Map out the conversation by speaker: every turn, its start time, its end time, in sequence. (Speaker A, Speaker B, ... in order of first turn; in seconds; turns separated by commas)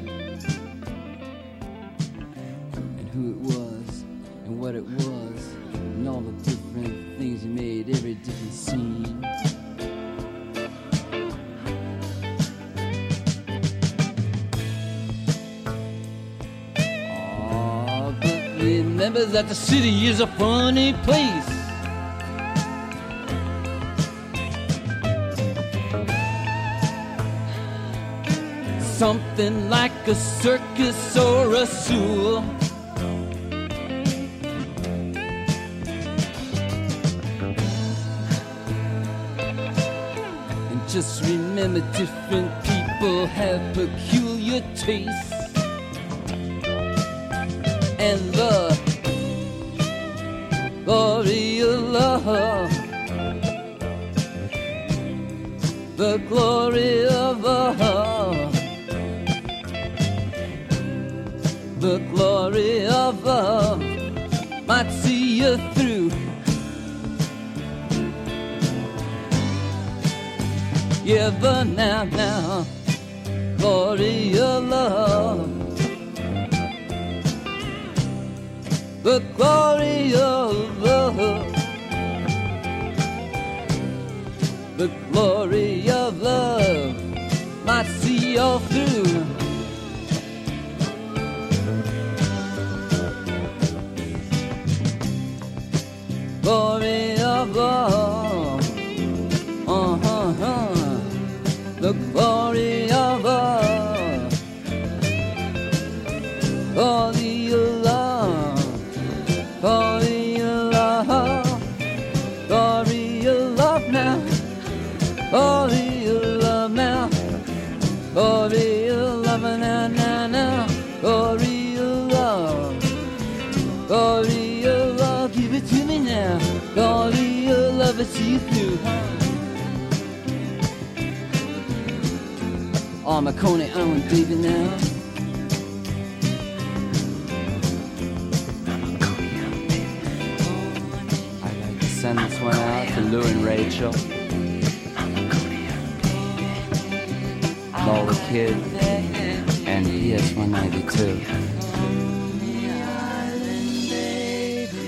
Speaker A: 3.0-9.3, Speaker A: 17.1-21.8, Speaker A: 28.8-32.5, Speaker A: 40.7-45.6, Speaker A: 48.0-48.9, Speaker A: 50.8-52.9, Speaker A: 56.0-58.6, Speaker A: 61.8-64.0, Speaker A: 64.6-66.3, Speaker A: 71.0-72.7, Speaker A: 73.6-75.6, Speaker A: 79.0-81.7, Speaker A: 84.7-89.5, Speaker A: 96.4-98.8, Speaker A: 99.6-101.2, Speaker A: 101.8-104.4, Speaker A: 106.7-108.8, Speaker A: 109.6-111.7, Speaker A: 112.5-114.5, Speaker A: 115.3-117.3, Speaker A: 118.1-122.9, Speaker A: 123.9-129.4, Speaker A: 133.0-134.9, Speaker A: 140.6-144.0, Speaker A: 146.4-146.6, Speaker A: 147.7-151.5, Speaker A: 152.4-153.9